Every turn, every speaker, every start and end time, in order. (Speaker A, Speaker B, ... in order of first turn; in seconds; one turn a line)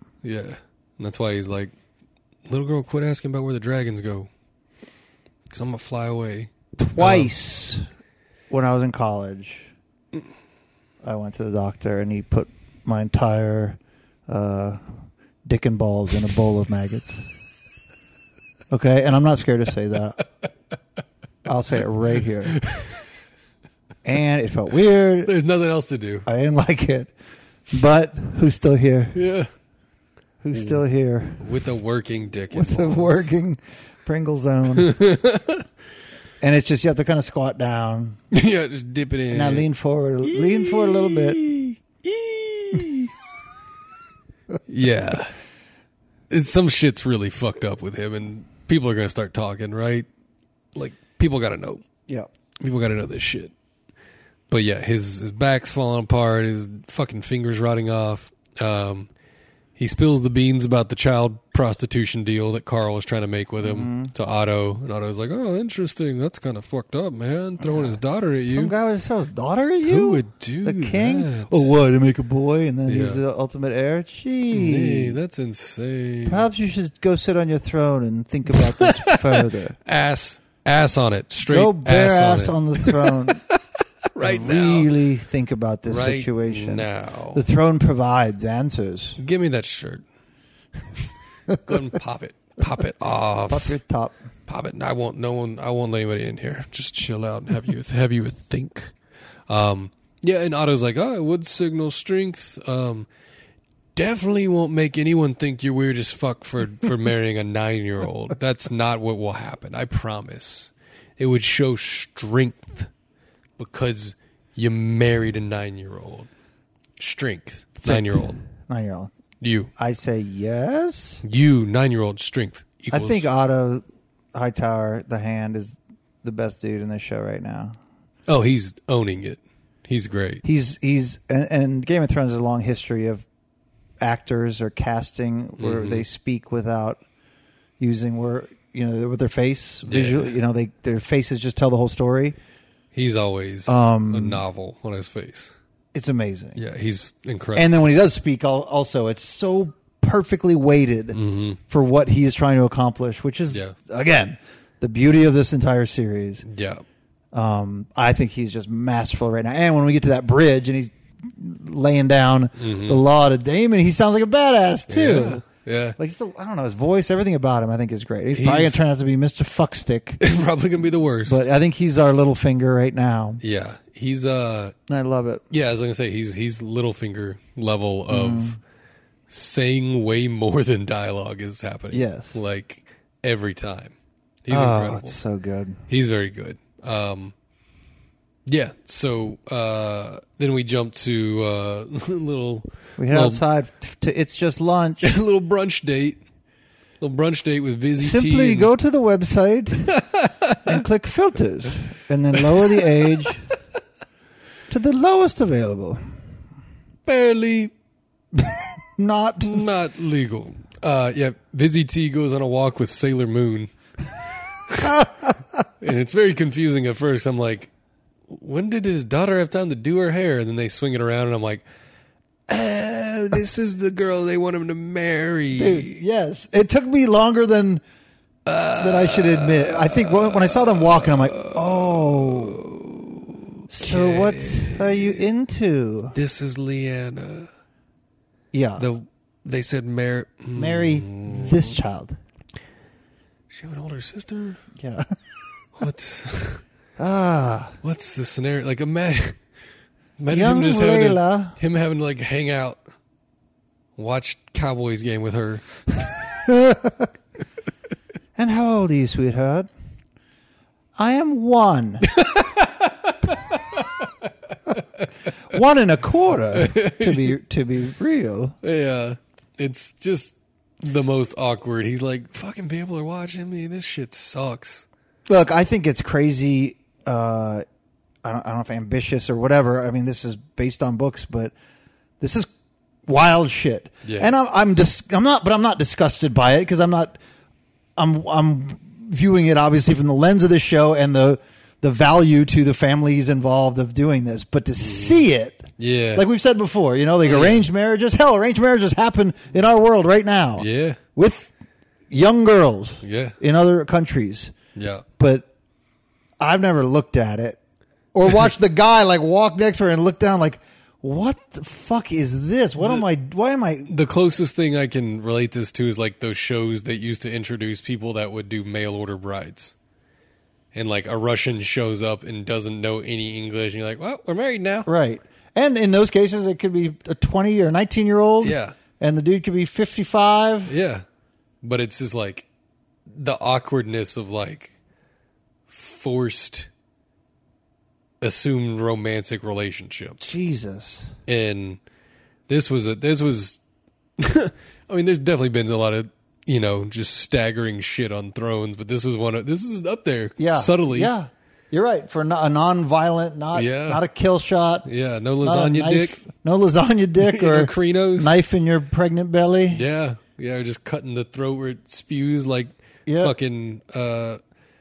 Speaker A: 0.2-1.7
Speaker A: 2.5-4.3
Speaker A: 5.5-7.3
Speaker B: 6.8-7.8
Speaker B: 8.5-9.7
Speaker B: 11.0-14.9
Speaker B: 15.4-17.3
Speaker B: 18.7-20.2
Speaker B: 21.4-22.6
Speaker A: 22.6-22.9
Speaker B: 24.0-25.3
Speaker A: 25.2-26.3
Speaker B: 26.2-27.1
Speaker B: 27.7-29.1
Speaker A: 29.1-29.5
Speaker B: 30.4-31.5
Speaker A: 30.5-30.8
Speaker A: 31.4-33.3
Speaker B: 32.5-35.0
Speaker A: 34.7-35.6
Speaker B: 36.4-38.2
Speaker A: 38.3-39.7
Speaker B: 39.3-41.4
Speaker A: 40.2-43.1
Speaker A: 44.7-45.4
Speaker A: 46.3-50.1
Speaker A: 50.7-51.8
Speaker A: 52.6-53.5
Speaker A: 54.5-59.1
Speaker A: 59.8-68.7
Speaker B: 63.6-64.1
Speaker B: 67.6-75.2
Speaker A: 69.8-71.7
Speaker A: 72.9-73.2
Speaker A: 74.5-76.5
Speaker B: 76.2-79.8
Speaker A: 78.5-83.6
Speaker B: 81.5-83.4
Speaker A: 84.1-84.9
Speaker B: 84.2-89.2
Speaker A: 85.8-87.4
Speaker A: 89.2-90.0
Speaker A: 91.6-93.8
Speaker B: 93.5-94.2
Speaker A: 94.5-98.9
Speaker A: 99.5-103.1
Speaker A: 103.9-112.9
Speaker A: 113.6-116.3
Speaker A: 117.0-118.4
Speaker B: 117.8-119.1
Speaker A: 119.4-119.7
Speaker B: 119.8-121.2
Speaker A: 121.2-123.3
Speaker B: 122.9-127.8
Speaker A: 128.3-130.4
Speaker B: 130.4-133.2
Speaker B: 134.0-137.0
Speaker A: 135.6-136.0
Speaker B: 137.8-142.3
Speaker A: 139.8-140.3
Speaker A: 142.9-145.6
Speaker B: 143.7-144.4
Speaker B: 145.9-146.6
Speaker A: 146.6-147.7
Speaker B: 147.5-156.4
Speaker A: 151.1-151.6
Speaker A: 156.4-156.8
Speaker B: 157.3-165.4
Speaker A: 162.6-163.0
Speaker A: 164.9-166.0
Speaker B: 166.0-170.2
Speaker A: 168.3-168.8
Speaker A: 170.2-171.4
Speaker B: 171.2-173.4
Speaker A: 173.4-174.7
Speaker B: 174.9-175.4
Speaker A: 175.5-178.6
Speaker B: 178.1-178.6
Speaker A: 179.3-185.1
Speaker B: 181.9-182.4
Speaker B: 184.5-185.8
Speaker A: 185.9-187.3
Speaker A: 188.5-193.4
Speaker B: 193.0-195.2
Speaker A: 195.0-196.2
Speaker A: 197.0-198.7
Speaker B: 198.0-199.9
Speaker A: 199.9-200.8
Speaker B: 200.6-203.4
Speaker B: 204.7-206.0
Speaker A: 207.1-207.7
Speaker B: 208.3-209.6
Speaker A: 209.4-213.7
Speaker A: 214.7-215.0
Speaker A: 215.8-217.7
Speaker A: 218.3-221.6
Speaker A: 222.5-225.9
Speaker B: 225.5-227.8
Speaker A: 228.4-235.2
Speaker B: 228.8-232.6
Speaker B: 233.7-236.2
Speaker A: 236.1-237.5
Speaker B: 238.5-238.8
Speaker A: 238.8-241.7
Speaker B: 240.5-242.2
Speaker A: 243.5-244.6
Speaker B: 244.8-245.1
Speaker A: 245.8-246.6
Speaker B: 247.0-247.8
Speaker A: 247.8-249.4
Speaker A: 250.2-252.8
Speaker B: 250.3-251.6
Speaker A: 254.0-255.7
Speaker B: 256.4-257.1
Speaker B: 258.3-259.7
Speaker B: 260.9-262.0
Speaker A: 262.0-265.1
Speaker B: 265.5-268.5
Speaker A: 266.5-267.3
Speaker A: 268.6-274.9
Speaker B: 275.3-277.6
Speaker B: 278.2-281.5
Speaker B: 282.2-282.5
Speaker B: 283.1-287.2
Speaker A: 284.0-284.3
Speaker B: 288.0-301.5
Speaker A: 294.8-295.2
Speaker A: 295.8-296.2
Speaker A: 297.2-297.6
Speaker A: 300.6-301.0
Speaker B: 302.1-304.5
Speaker A: 303.0-303.4
Speaker A: 304.8-305.0
Speaker B: 305.2-305.5
Speaker B: 306.4-307.6
Speaker B: 308.1-313.9
Speaker A: 313.9-319.7
Speaker A: 320.7-324.9
Speaker B: 324.9-330.7
Speaker A: 328.4-328.7
Speaker A: 330.7-331.0
Speaker A: 331.6-332.5
Speaker A: 333.1-334.7
Speaker A: 335.7-336.7
Speaker A: 338.2-340.2
Speaker B: 340.2-341.1
Speaker A: 341.3-341.8
Speaker A: 342.5-343.6
Speaker A: 344.2-351.1
Speaker B: 350.4-354.9
Speaker A: 353.5-354.0
Speaker A: 354.8-356.2
Speaker B: 355.4-359.8
Speaker A: 357.2-358.3
Speaker A: 359.7-364.4
Speaker B: 363.1-363.3